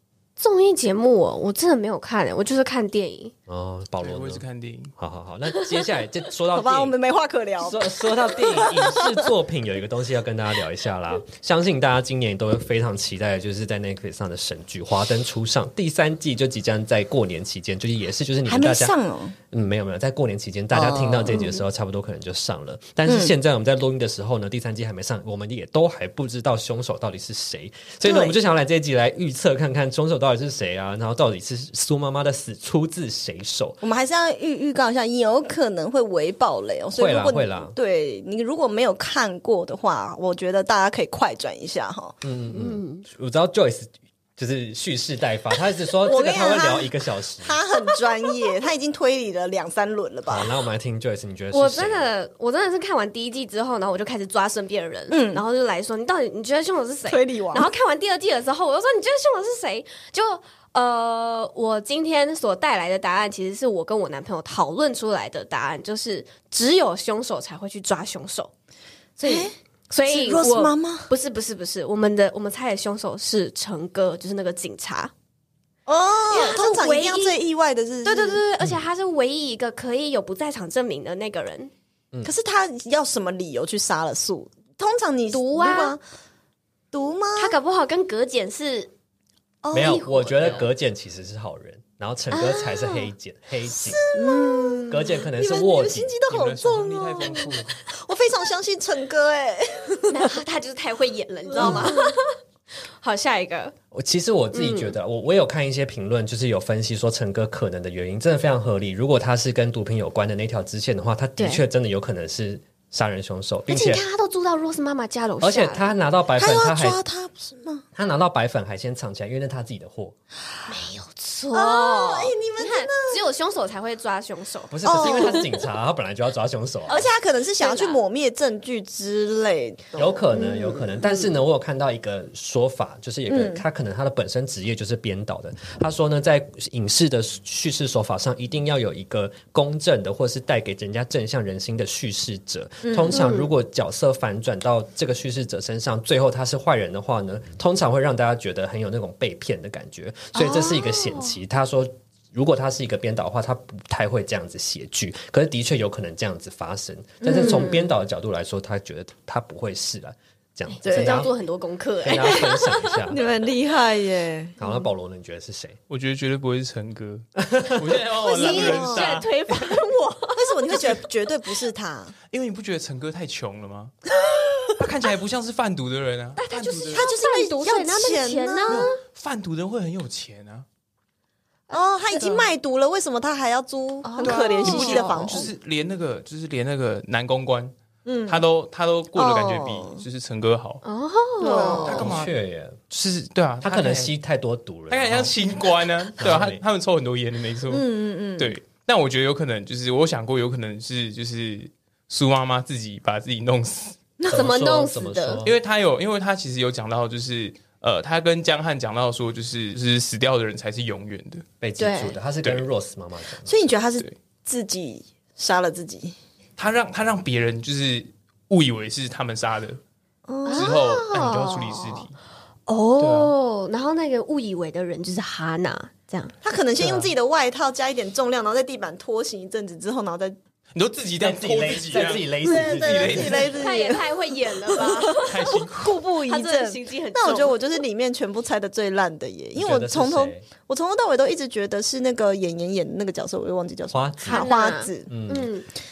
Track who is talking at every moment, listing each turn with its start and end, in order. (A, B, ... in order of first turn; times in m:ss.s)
0:00.4-0:03.3 A
0:03.5-0:04.4 B
0:04.0-0:04.9 C
0:05.0-0:06.9 B
0:06.5-0:09.2 D
0:07.6-0:18.9 B
0:18.5-0:19.4 D
0:19.5-0:33.8 B
0:20.7-0:21.6 D
0:23.0-0:23.3 D
0:28.0-0:28.4 D
0:33.8-0:42.2 D
0:36.9-0:37.7 B
0:42.2-0:47.6 B
0:42.5-0:43.0 A
0:46.0-0:50.5 D
0:50.3-0:52.1 B
0:51.5-1:08.5 A
0:55.1-0:55.4 D
0:57.1-0:57.7 D
1:09.2-1:09.5 D
1:09.2-1:15.1 A
1:10.1-1:11.1 D
1:15.8-1:18.4 D
1:16.3-1:17.4 A
1:18.0-1:21.7 A
1:22.2-1:26.0 D
1:25.3-1:26.0 A
1:26.9-1:27.6 D
1:27.4-1:28.9 A
1:29.6-1:30.0 D
1:29.7-1:34.0 B
1:29.7-1:30.7 A
1:32.3-1:33.1 A
1:33.7-1:40.3 D
1:34.1-1:35.2 A
1:34.9-1:36.2 B
1:36.3-1:37.8 C
1:40.1-1:42.4 A
1:41.5-1:42.2 D
1:41.6-1:41.9 B
1:43.0-1:43.7 A
1:43.9-1:54.0 B
1:44.5-1:44.9 A
1:51.4-1:51.6 A
1:53.7-1:55.9 A
1:55.4-1:57.0 B
1:56.4-1:57.8 D
1:57.9-2:00.1 B
2:00.7-2:05.4 A
2:01.5-2:03.2 D
2:04.7-2:07.1 B
2:04.8-2:05.5 D
2:06.9-2:10.2 D
2:07.6-2:08.0 A
2:09.9-2:41.3 B
2:10.3-2:10.8 A
2:13.3-2:13.6 D
2:22.8-2:23.3 D
2:23.1-2:23.5 A
2:30.4-2:31.3 A
2:37.2-2:37.7 D
2:37.3-2:37.8 A
2:40.7-2:43.0 A
2:40.8-2:41.3 D
2:42.0-2:43.2 B
2:43.1-2:44.6 D
2:44.6-2:45.8 B
2:45.9-2:49.7 C
2:47.4-2:48.0 B
2:48.2-2:51.0 A
2:48.4-2:49.2 D
2:50.4-2:52.1 D
2:52.3-2:53.9 C
2:54.7-2:57.1 C
2:56.4-2:59.0 A
2:56.9-2:58.9 D
2:58.7-3:00.6 C
3:01.7-3:02.5 A
3:01.7-3:05.5 D
3:04.0-3:05.5 A
3:04.2-3:07.7 C
3:08.0-3:08.4 D
3:08.2-3:10.8 C
3:09.1-3:10.0 D
3:10.8-3:12.0 A
3:11.4-3:12.1 D
3:11.5-3:12.3 C
3:11.8-3:12.8 B
3:12.9-3:14.1 C
3:13.6-3:15.3 B
3:14.9-3:17.8 C
3:16.2-3:16.6 B
3:17.7-3:18.6 D
3:18.4-3:23.9 C
3:24.2-3:25.4 A
3:24.3-3:25.6 B
3:25.4-3:31.4 C
3:31.6-3:33.6 B
3:31.8-3:32.2 A
3:33.4-3:36.2 D
3:36.6-3:39.8 C
3:40.3-3:40.8 D
3:40.4-3:42.0 A
3:40.5-3:42.1 C
3:42.7-3:46.3 A
3:43.0-3:43.3 C
3:46.4-3:50.4 D
3:46.8-3:47.1 B
3:50.7-3:53.7 C
3:51.2-3:53.6 B
3:52.4-4:05.1 D
3:53.5-3:57.7 A
3:55.1-3:56.0 C
3:59.6-4:00.5 B
4:03.9-4:04.5 B
4:04.3-4:05.7 A
4:05.1-4:05.5 B